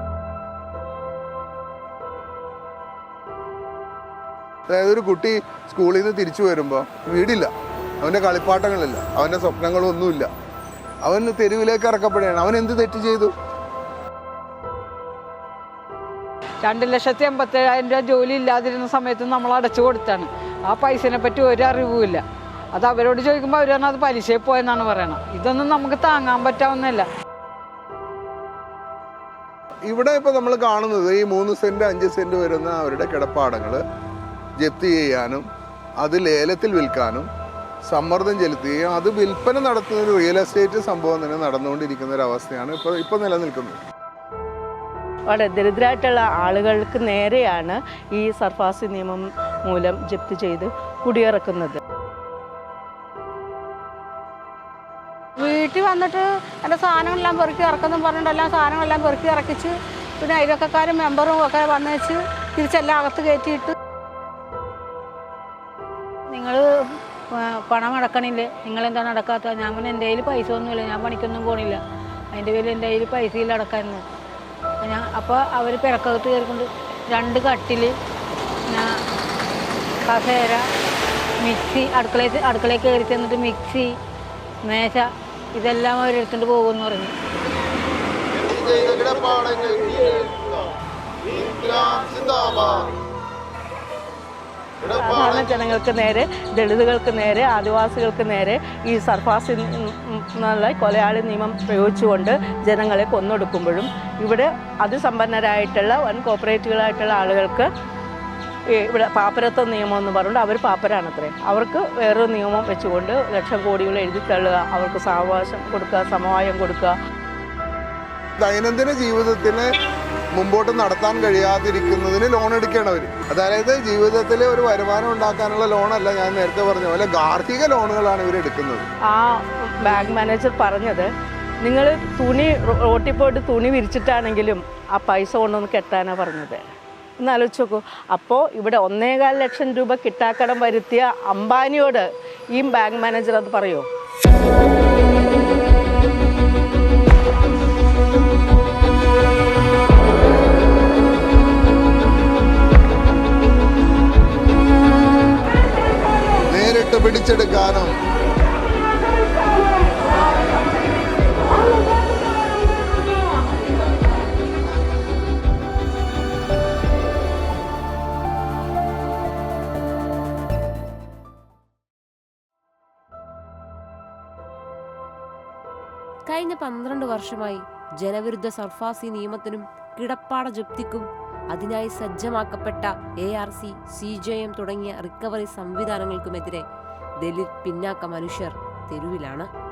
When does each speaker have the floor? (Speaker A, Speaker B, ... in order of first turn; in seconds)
Speaker A: 4.7-7.5, 8.0-10.3, 11.0-13.3, 29.8-33.8, 34.6-35.5, 36.0-37.3, 37.8-43.8, 89.1-89.7, 118.4-119.7, 120.3-128.9, 156.5-157.9
Speaker B: 16.6-22.2, 22.7-27.1
Speaker C: 45.3-51.8, 94.9-107.7, 108.7-116.9, 129.1-131.1, 131.6-136.6, 137.2-143.9
Speaker D: 55.4-63.7, 66.3-66.7, 67.3-71.8, 72.3-74.0, 74.8-78.0, 80.0-80.7, 81.4-83.9, 84.6-87.2
Speaker E: 176.3-186.6, 187.2-189.5